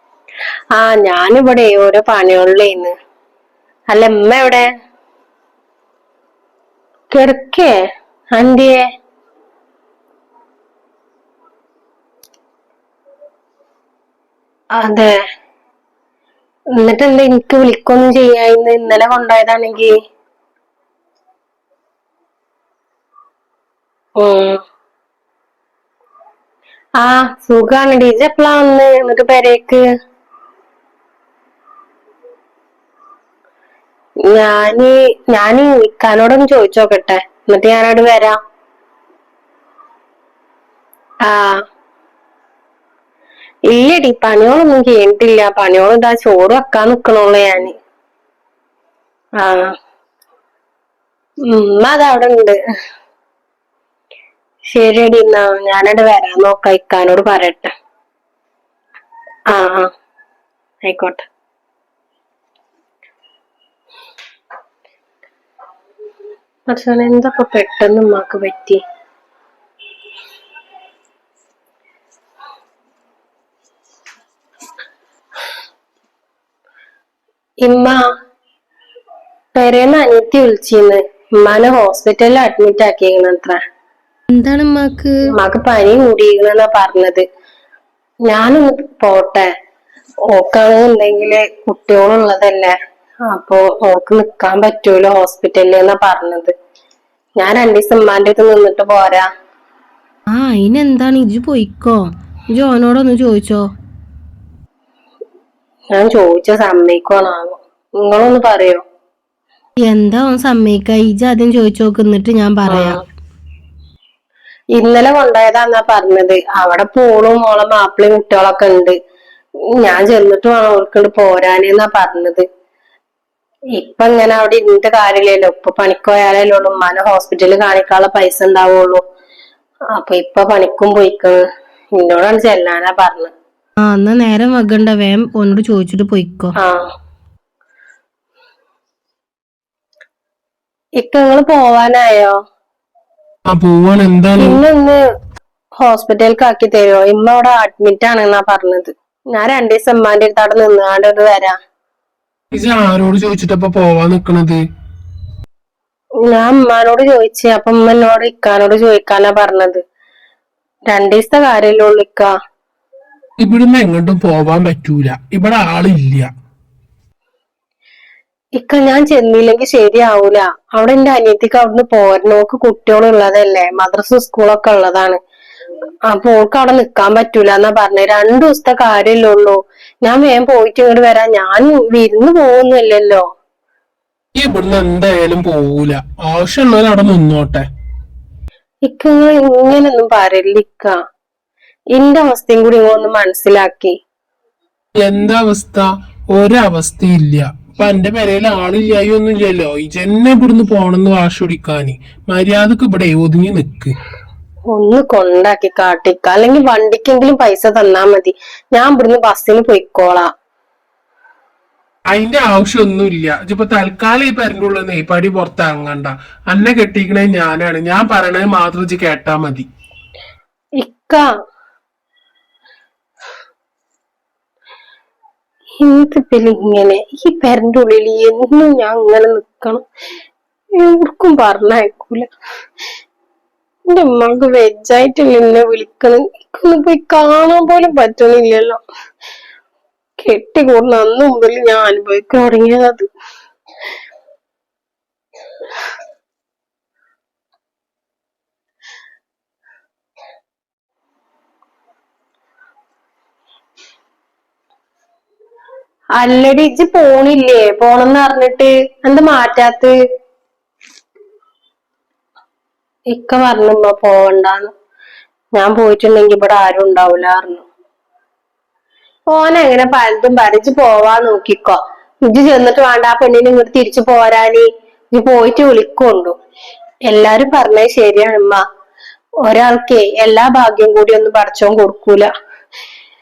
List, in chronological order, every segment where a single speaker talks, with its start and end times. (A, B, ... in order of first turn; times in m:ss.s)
0:00.7-0:02.9 A
0:03.9-0:04.7 A
0:07.1-0:07.7 A
0:08.3-0:08.8 A
0:14.8-0:15.1 A
0:16.8-0:19.9 A
0:24.2-0:24.6 A
0:27.0-0:29.8 A
0:34.2-0:38.4 A
0:41.2-0:41.6 A
0:43.7-0:47.8 A
0:49.4-0:49.8 A
0:51.4-0:52.6 A
0:54.7-0:57.7 A
0:59.5-0:59.9 A
1:00.8-1:01.2 A
1:06.7-1:08.8 A
1:17.6-1:18.0 A
1:19.5-1:23.6 A
1:24.3-1:25.2 B
1:25.3-1:27.2 A
1:28.3-1:29.5 A
1:30.3-1:32.8 A
1:33.3-1:36.5 A
1:37.4-1:39.3 A
1:40.3-1:43.7 B
1:45.9-1:48.8 A
1:49.8-1:53.0 B
1:52.7-1:53.0 A
1:54.8-1:59.0 A
1:59.8-2:02.4 A
2:03.8-2:09.0 A
2:09.9-2:11.4 A
2:12.0-2:13.3 A
2:13.8-2:16.5 B
2:16.6-2:16.8 A
2:21.0-2:22.4 A
2:23.5-2:24.6 C
2:24.4-2:25.0 A
2:25.8-2:31.6 A
2:32.5-2:34.6 C
2:36.2-2:39.8 A
2:40.9-2:42.3 A
2:43.4-2:46.3 C
2:48.6-2:55.2 A
2:56.1-3:03.2 A
3:04.4-3:07.6 C
3:08.8-3:11.0 A
3:11.9-3:14.0 A
3:15.0-3:23.9 C
3:24.7-3:30.3 A
3:32.1-3:39.7 C
3:40.8-3:41.2 A
3:45.8-3:49.8 A
3:50.8-3:52.3 A
3:53.9-3:58.8 A
4:00.2-4:03.1 A
4:16.2-4:20.0 A
4:23.1-4:24.7 A
4:25.6-4:27.6 A
4:29.3-4:36.4 A
4:37.1-4:38.6 A
4:39.4-4:42.3 A